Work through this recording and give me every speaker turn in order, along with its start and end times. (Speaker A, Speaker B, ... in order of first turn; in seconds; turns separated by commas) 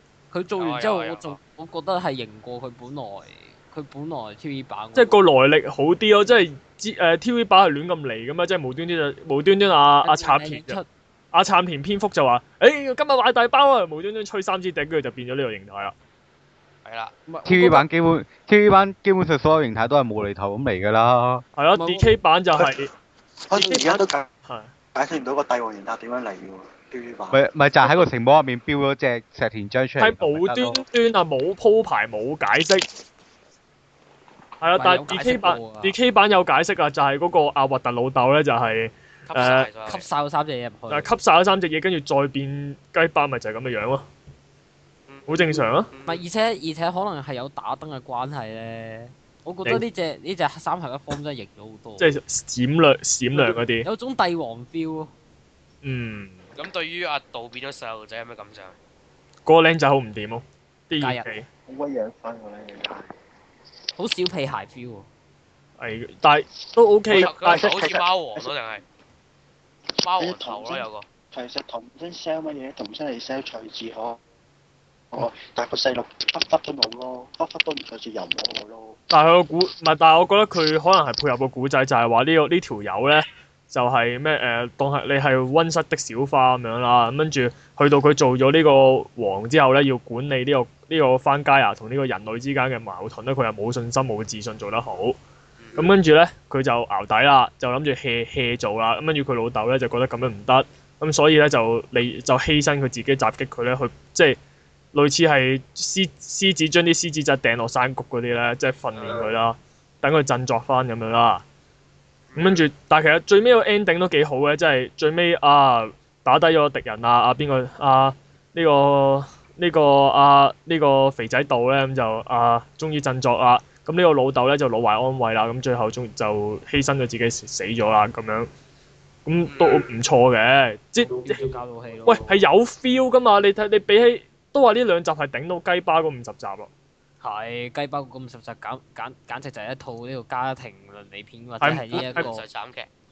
Speaker A: 0.3-5.2, Speaker B: 0.6-1.4, Speaker C: 5.0-10.8, Speaker A: 10.0-10.9, Speaker C: 11.3-15.9, Speaker B: 16.9-17.1, Speaker A: 17.3-17.9, Speaker D: 17.4-21.4, Speaker C: 21.6-22.9, Speaker A: 21.8-22.1, Speaker E: 23.5-24.3, Speaker A: 23.6-24.0, Speaker E: 24.9-27.4, Speaker D: 27.3-30.8, Speaker C: 30.0-32.9, Speaker C: 34.6-39.7, Speaker A: 34.8-35.9, Speaker B: 39.3-40.0, Speaker A: 39.9-41.1, Speaker C: 40.9-44.1, Speaker B: 45.1-46.2, Speaker C: 45.3-45.9, Speaker A: 46.1-52.1, Speaker C: 52.0-53.9, Speaker A: 53.4-55.1, Speaker C: 55.8-56.4, Speaker B: 56.6-58.8, Speaker C: 59.5-61.5, Speaker A: 61.0-61.2, Speaker E: 61.7-63.1, Speaker A: 64.0-65.1, Speaker C: 65.8-67.7, Speaker B: 67.1-68.8, Speaker E: 67.2-68.5, Speaker B: 70.0-71.1, Speaker E: 70.0-74.2, Speaker E: 75.1-79.0, Speaker C: 79.1-95.2, Speaker B: 95.6-95.9, Speaker C: 95.8-104.4, Speaker C: 104.9-111.4, Speaker B: 112.3-112.7, Speaker C: 112.3-128.5, Speaker C: 129.3-131.4, Speaker B: 129.5-129.8, Speaker A: 131.1-132.2, Speaker C: 132.1-136.7, Speaker A: 137.2-142.4, Speaker C: 141.6-142.3, Speaker B: 141.9-142.9